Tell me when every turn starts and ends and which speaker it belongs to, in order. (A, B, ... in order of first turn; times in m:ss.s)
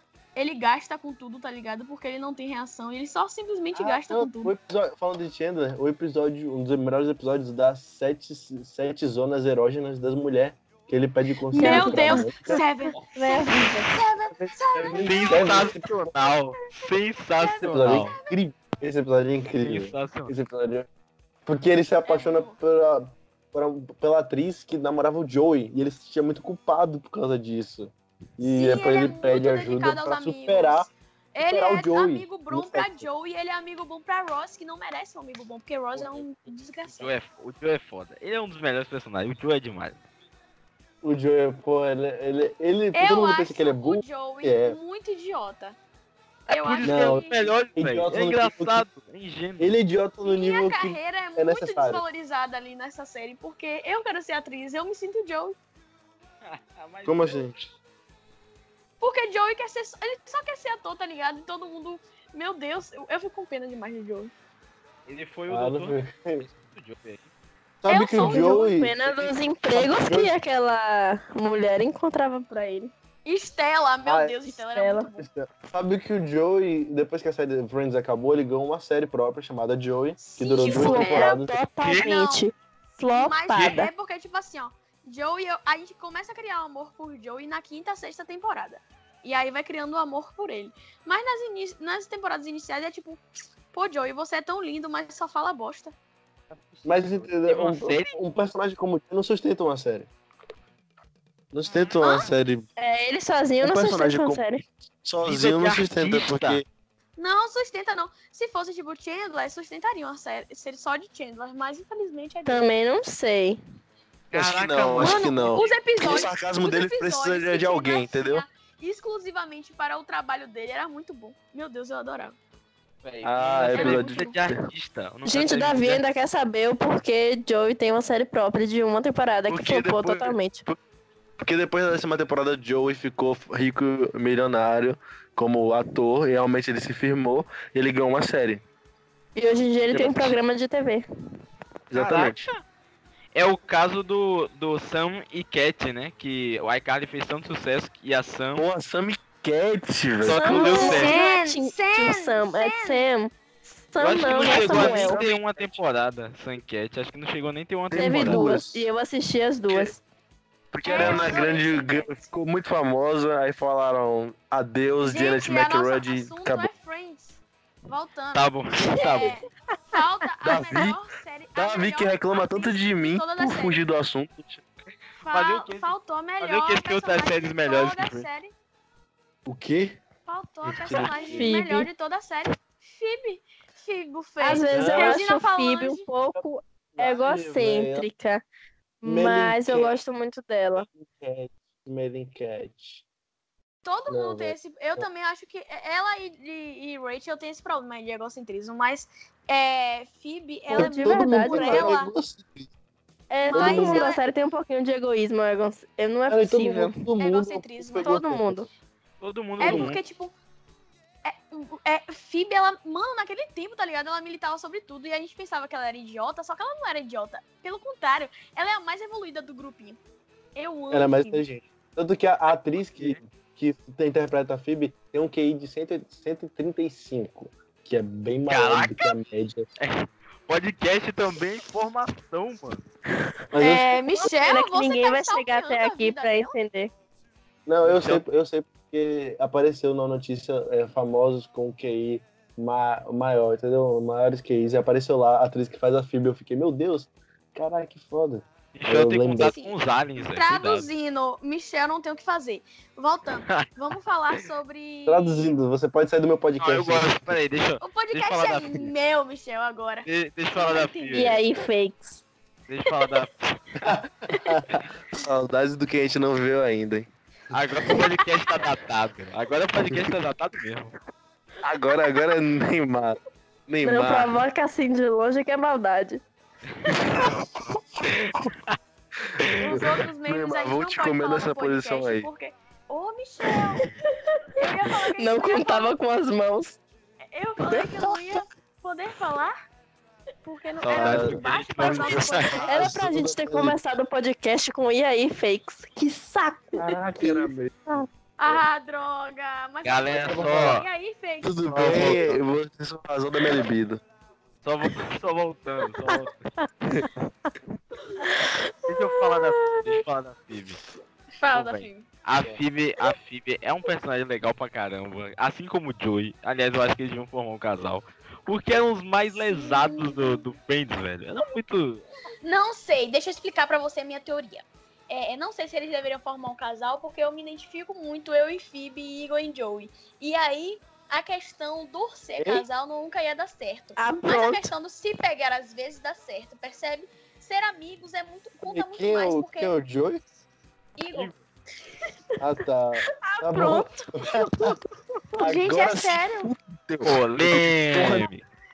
0:00.3-0:04.5 A
0:03.7-0:12.6 B
0:11.5-0:15.8 A
0:11.5-0:13.9 C
0:14.3-0:16.1 B
0:15.0-0:18.2 D
0:17.3-0:18.4 A
0:17.6-0:20.9 B
0:19.6-0:20.3 D
0:21.4-0:30.9 B
0:22.0-0:22.6 A
0:28.4-0:37.1 A
0:31.4-0:33.1 B
0:36.0-0:36.2 D
0:36.8-0:40.0 D
0:41.0-0:44.8 B
0:42.9-0:45.8 A
0:46.5-0:49.7 D
0:46.5-0:47.4 A
0:46.8-0:48.8 B
0:49.6-0:52.0 B
0:50.2-0:55.6 A
0:56.4-0:57.5 D
0:57.0-0:57.6 B
0:59.0-1:04.3 A
1:05.0-1:07.3 D
1:05.5-1:06.5 B
1:07.8-1:10.4 B
1:07.9-1:08.6 A
1:08.2-1:12.9 C
1:13.2-1:15.2 A
1:14.0-1:14.4 B
1:14.5-1:15.1 C
1:15.2-1:21.6 B
1:20.2-1:21.4 A
1:20.6-1:23.9 C
1:21.8-1:22.1 D
1:21.9-1:22.5 A
1:23.1-1:33.2 A
1:23.5-1:23.8 D
1:33.7-1:35.9 A
1:36.5-1:38.2 D
1:36.8-1:40.1 B
1:41.5-1:42.7 B
1:41.6-1:42.3 D
1:42.0-1:42.3 A
1:42.8-1:44.6 C
1:43.6-1:46.6 B
1:45.2-1:46.6 D
1:47.2-1:52.6 A
1:52.4-1:53.6 C
1:54.3-1:55.8 D
1:54.3-1:58.4 B
1:55.0-2:02.4 A
2:03.0-2:06.0 D
2:03.2-2:04.6 B
2:03.7-2:04.3 A
2:05.2-2:10.6 C
2:09.5-2:10.8 B
2:11.4-2:18.6 B
2:19.3-2:21.0 C
2:19.9-2:20.4 B
2:21.9-2:22.5 B
2:21.9-2:22.6 D
2:23.3-2:28.7 D
2:28.6-2:31.1 B
2:30.2-2:31.2 D
2:30.3-2:35.2 C
2:30.6-2:33.0 A
2:34.0-2:38.4 D
2:34.2-2:35.8 B
2:37.9-2:38.9 B
2:37.9-2:40.0 C
2:39.7-2:39.9 B
2:40.7-2:46.7 B
2:40.8-2:42.2 A
2:45.0-2:53.8 A
2:48.3-2:49.4 D
2:50.4-2:51.0 B
2:51.5-2:54.6 B
2:55.2-2:58.5 A
2:55.2-2:58.3 D
2:59.4-3:00.0 B
3:00.2-3:06.0 A
3:00.6-3:01.5 B
3:01.3-3:01.9 C
3:04.4-3:08.4 C
3:04.7-3:05.2 B
3:07.0-3:08.1 B
3:09.0-3:10.9 C
3:09.0-3:10.0 B
3:10.9-3:13.0 B
3:13.8-3:22.1 A
3:14.1-3:15.1 B
3:20.7-3:22.7 B
3:20.7-3:21.9 C
3:23.3-3:26.9 C
3:23.4-3:24.2 A
3:23.5-3:24.1 B
3:26.3-3:28.7 B
3:27.2-3:28.1 A
3:28.0-3:28.7 C
3:29.2-3:30.0 D
3:29.6-3:30.3 A
3:29.6-3:30.0 B
3:31.2-3:40.0 A
3:40.6-3:41.4 A
3:40.9-3:49.7 B
3:43.0-3:43.2 D
3:48.5-3:49.2 D
3:49.8-3:52.8 D
3:53.5-3:53.9 B
3:53.6-3:56.5 A
3:54.1-3:56.9 C
3:57.6-4:09.5 B
3:57.8-3:58.2 D
4:08.7-4:10.9 D
4:09.4-4:15.5 A
4:15.1-4:17.4 B
4:16.6-4:18.9 D
4:17.8-4:21.4 A
4:20.0-4:21.4 D
4:21.1-4:22.2 C
4:22.7-4:23.9 D
4:23.8-4:27.1 B
4:24.3-4:24.6 A
4:27.5-4:30.9 D
4:31.6-4:34.3 B
4:33.8-4:36.2 C
4:38.0-4:38.5 B
4:38.1-4:38.8 D
4:39.4-4:42.3 B
4:39.6-4:43.9 A
4:43.8-4:44.6 C
4:44.6-4:46.0 A
4:45.2-4:46.8 C
4:47.3-4:49.5 A
4:47.7-4:48.1 C
4:50.4-4:52.9 A
4:50.8-4:52.6 D
4:50.9-4:53.8 B
4:52.7-4:58.0 C
4:56.8-4:58.6 B
4:58.4-5:02.2 A
4:59.8-5:00.8 D
5:00.2-5:00.8 B
5:01.4-5:04.0 B
5:01.7-5:02.4 D
5:04.6-5:06.5 D
5:06.1-5:07.1 C
5:08.2-5:10.0 C
5:08.9-5:10.8 D
5:11.3-5:12.0 A
5:11.5-5:22.0 D
5:19.4-5:20.4 A
5:22.4-5:39.7 A
5:32.4-5:32.6 B
5:34.0-5:34.7 C
5:38.6-5:40.2 B
5:41.0-5:41.3 A
5:42.4-5:44.8 B
5:43.2-5:44.8 C
5:45.4-5:48.3 B
5:45.4-5:46.5 A
5:47.0-5:48.4 D